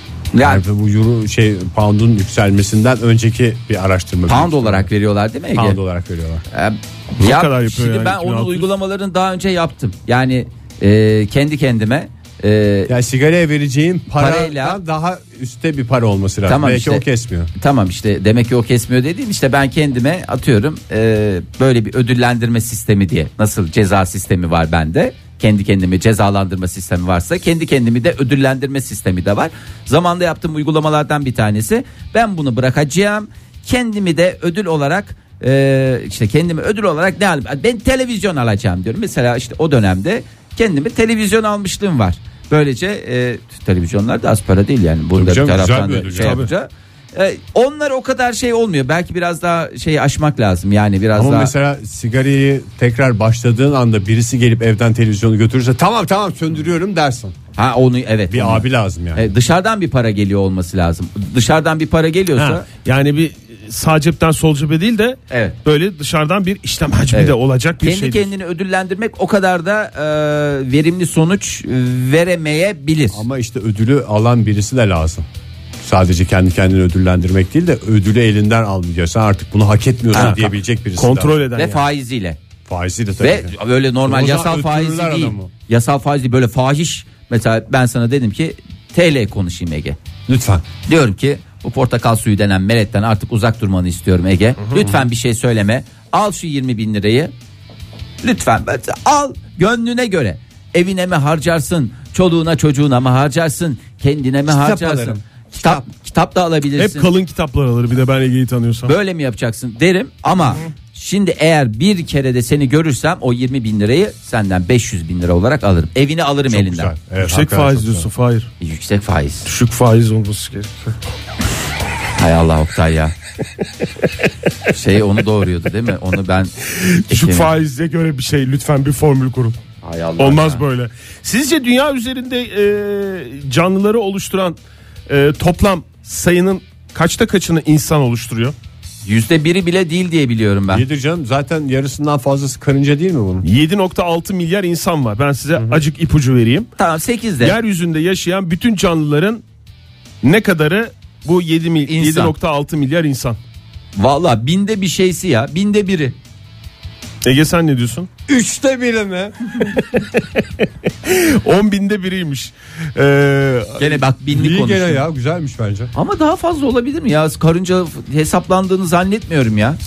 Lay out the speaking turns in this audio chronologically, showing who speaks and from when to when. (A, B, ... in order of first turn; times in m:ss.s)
0:00.3-0:00.6 A
0:00.4-0:04.9 B
0:04.3-0:05.8 A
0:05.5-0:06.4 B
0:06.5-0:12.9 A
0:07.2-0:08.7 C
0:12.9-0:17.5 B
0:14.2-0:14.8 A
0:16.5-0:17.0 A
0:17.6-0:51.5 A
0:45.1-0:46.5 B
0:46.2-0:46.5 C
0:51.1-0:57.3 B
0:57.5-1:02.6 A
0:58.3-0:59.3 B
1:02.4-1:08.3 C
1:07.1-1:13.2 A
1:13.1-1:15.2 B
1:15.8-1:21.4 B
1:20.1-1:20.4 A
1:20.1-1:20.4 C
1:21.0-1:21.8 C
1:21.6-1:22.4 A
1:22.7-1:25.5 B
1:23.2-1:30.0 A
1:30.3-1:30.6 B
1:30.8-1:37.3 A
1:38.2-1:47.1 A
1:44.5-1:45.9 B
1:46.8-1:48.9 C
1:48.9-1:56.9 A
1:56.5-1:58.1 B
1:57.2-1:58.5 C
1:58.6-1:59.5 A
1:59.4-2:01.0 C
2:02.1-2:03.1 A
2:04.7-2:06.5 A
2:06.6-2:09.6 C
2:07.1-2:07.5 A
2:09.8-2:10.6 A
2:10.2-2:14.6 C
2:15.1-2:18.5 C
2:19.0-2:20.8 A
2:20.7-2:23.4 B
2:23.4-2:26.7 C
2:26.8-2:27.6 A
2:27.4-2:29.4 C
2:30.2-2:33.4 C
2:31.9-2:32.3 A
2:34.0-2:36.1 A
2:37.2-2:38.1 C
2:38.3-2:39.6 B
2:40.0-2:44.0 C
2:43.8-2:45.0 A
2:44.3-2:45.9 B
2:45.9-2:49.8 A